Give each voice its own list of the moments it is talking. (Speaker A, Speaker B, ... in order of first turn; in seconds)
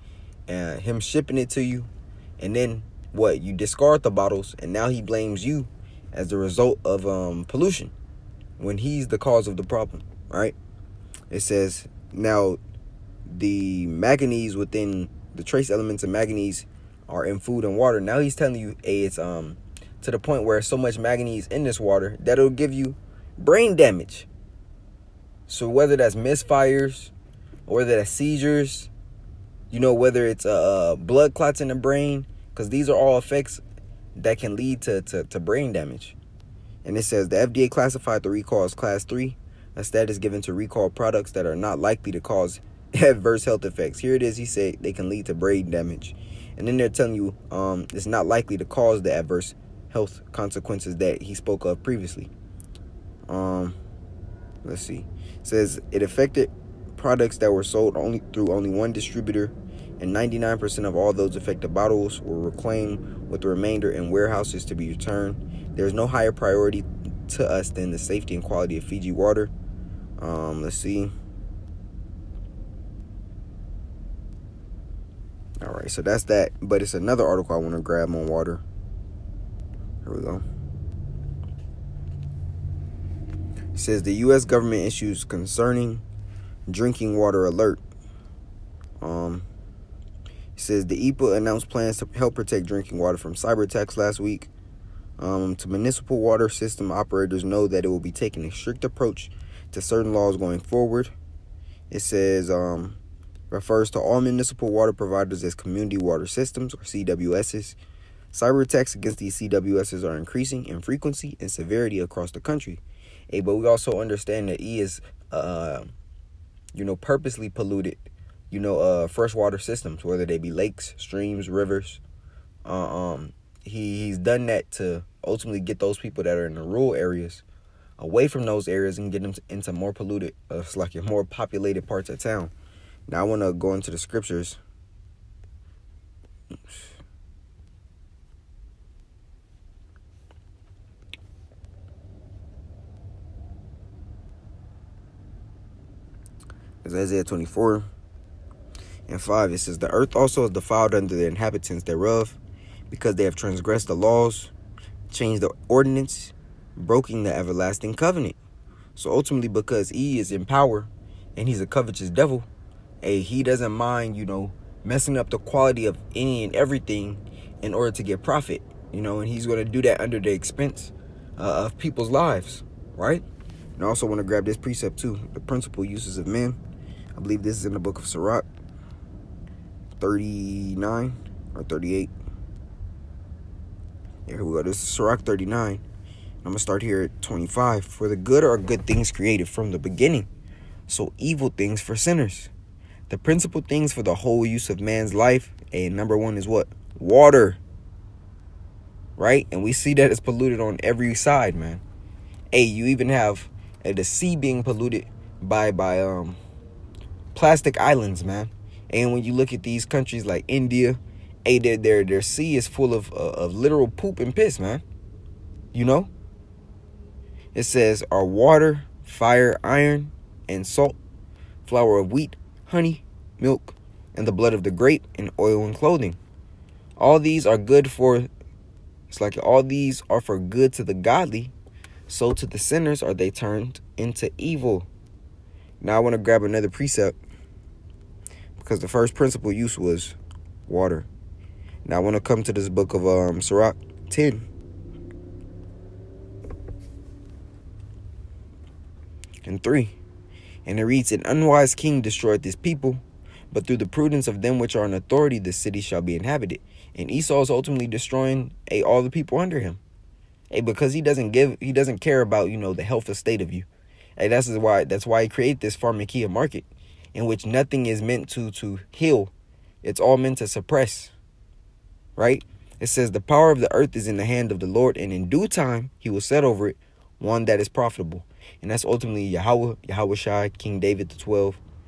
Speaker A: 0.5-7.9, 8.6-10.6, 11.3-12.6, 13.3-24.3, 25.5-27.1, 27.7-28.9, 29.7-33.6, 34.1-36.2, 36.8-52.3, 53.3-53.8, 54.6-69.5, 70.2-71.1, 75.6-78.6, 80.0-80.4, 83.7-86.0, 86.7-87.8, 89.0-89.5, 90.6-94.5, 95.2-101.1, 101.9-103.0, 103.5-107.8, 108.3-115.9, 116.7-122.0, 122.7-127.4, 128.0-132.5, 133.1-134.6, 146.8-147.9, 149.1-152.4, 152.9-154.5, 155.1-158.4, 159.0-162.5, 163.0-173.2, 173.8-176.6, 177.2-178.5, 180.0-182.1, 184.3-185.8, 186.4-190.3, 190.9-192.5, 193.1-197.6, 199.2-201.8, 202.5-206.4, 207.3-214.8, 215.7-216.1, 217.6-221.0, 221.6-226.2, 227.0-228.3, 229.1-231.5, 232.1-234.9, 235.8-237.2, 238.6-241.1, 241.8-244.5, 249.4-250.0, 250.7-259.8, 260.5-269.3, 269.8-271.1, 272.2-281.6